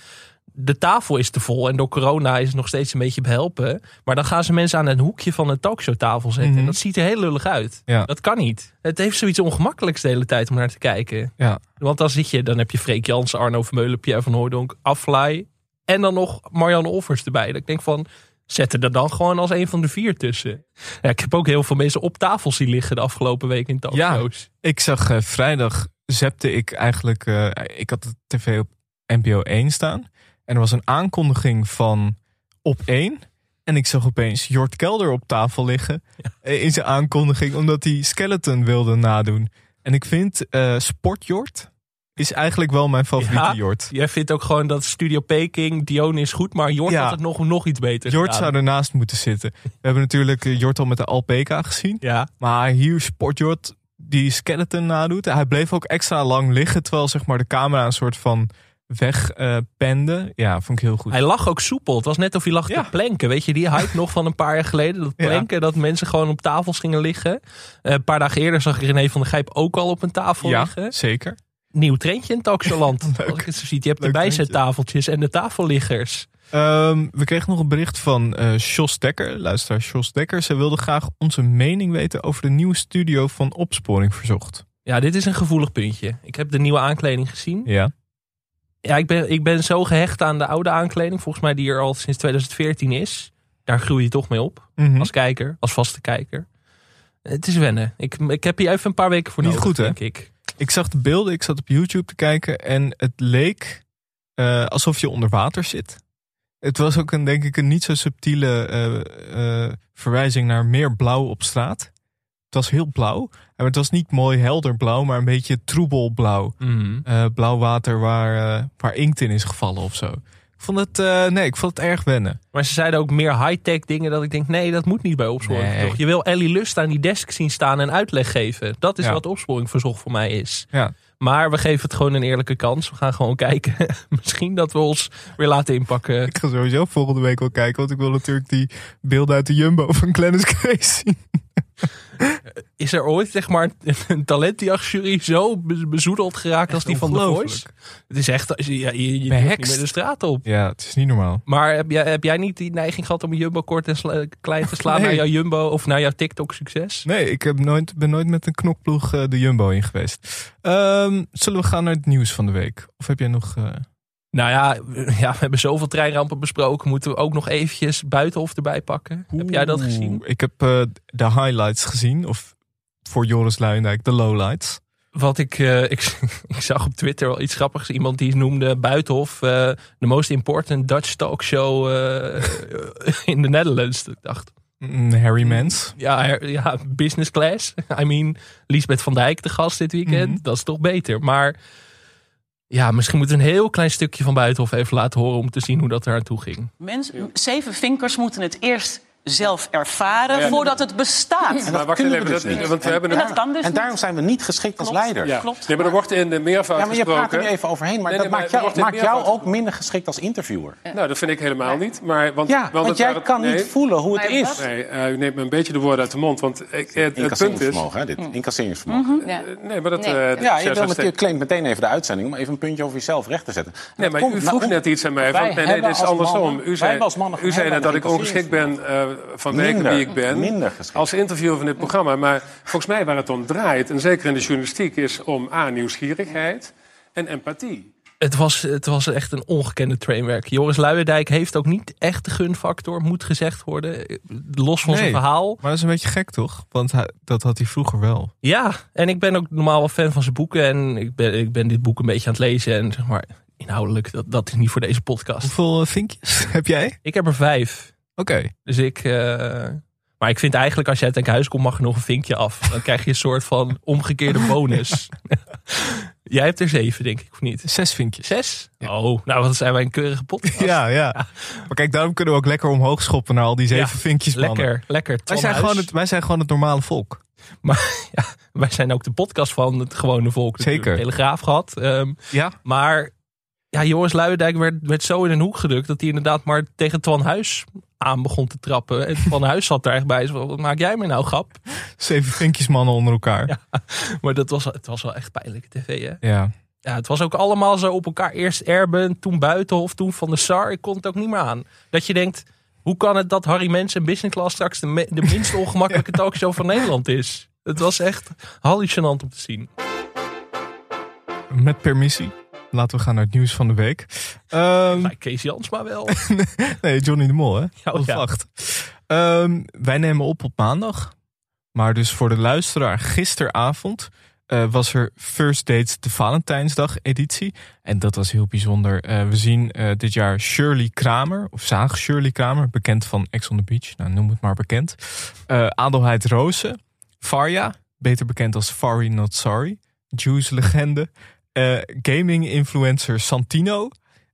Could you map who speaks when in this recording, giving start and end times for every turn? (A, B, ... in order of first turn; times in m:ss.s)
0:00.5-0:24.5 A
0:06.4-0:06.8 B
0:11.4-0:11.6 B
0:23.9-0:43.9 B
0:43.2-0:48.5 A
0:46.9-0:47.2 B
0:48.0-1:01.2 B
0:52.0-0:52.3 A
1:01.1-1:10.9 A
1:05.2-1:05.5 B
1:10.4-1:11.4 B
1:11.7-1:16.3 A
1:12.7-1:13.5 B
1:14.0-1:14.6 B
1:16.5-1:24.6 B
1:24.8-1:27.7 A
1:27.6-1:27.9 B
1:28.8-1:36.4 A
1:34.8-1:35.1 B
1:37.2-1:40.3 A
1:39.4-1:40.0 B
1:40.6-1:43.8 B
1:44.4-1:46.0 B
1:46.6-1:51.9 B
1:52.5-2:02.4 B
1:56.6-1:57.0 A
2:02.5-2:10.7 A
2:05.4-2:06.0 B
2:11.2-2:16.3 A
2:16.3-2:22.4 B
2:22.8-2:30.4 A
2:26.7-2:27.7 B
2:29.3-2:29.8 B
2:30.4-2:31.4 B
2:31.4-2:37.0 A
2:34.8-2:35.2 B
2:37.0-2:43.8 B
2:44.3-2:50.2 A
2:49.3-2:52.5 B
2:53.0-2:54.8 B
2:55.1-3:04.5 A
3:04.8-3:05.9 B
3:05.4-3:11.6 A
3:10.0-3:10.4 B
3:12.7-3:16.7 A
3:16.8-3:21.7 C
3:20.3-3:20.8 D
3:20.4-3:20.7 E
3:21.6-3:23.4 D
3:21.6-3:25.5 E
3:22.5-3:24.0 C
3:24.8-3:25.9 C
3:25.2-3:27.5 D
3:26.7-3:30.8 E
3:28.1-3:29.5 D
3:30.9-3:33.7 D
3:32.4-3:34.6 E
3:34.2-3:34.6 C
3:34.5-3:37.9 D
3:37.0-3:39.2 E
3:38.9-3:39.3 C
3:39.2-3:41.1 D
3:40.0-3:40.4 C
3:40.4-3:48.8 E
3:44.0-3:57.9 D
3:49.5-3:51.1 E
3:58.2-4:05.6 A
4:04.9-4:08.3 B
4:08.4-4:15.5 A
4:15.4-4:17.0 B
4:17.0-4:17.9 A
4:18.2-4:18.5 B
4:18.6-4:27.7 A
4:27.6-4:28.3 B
4:28.2-4:31.3 A
4:30.5-4:34.7 B
4:33.7-4:35.9 A
4:35.3-4:37.2 B
4:37.6-4:43.1 A
4:40.6-4:41.0 B
4:42.3-4:42.6 B
4:43.7-4:51.6 A
4:52.0-4:53.5 B
4:53.5-4:56.2 A
4:56.2-4:56.5 B
4:56.8-5:09.7 A
5:11.5-5:15.1 B
5:14.9-5:16.2 A
5:16.1-5:21.1 B
5:17.8-5:18.3 A
5:21.7-5:43.9 B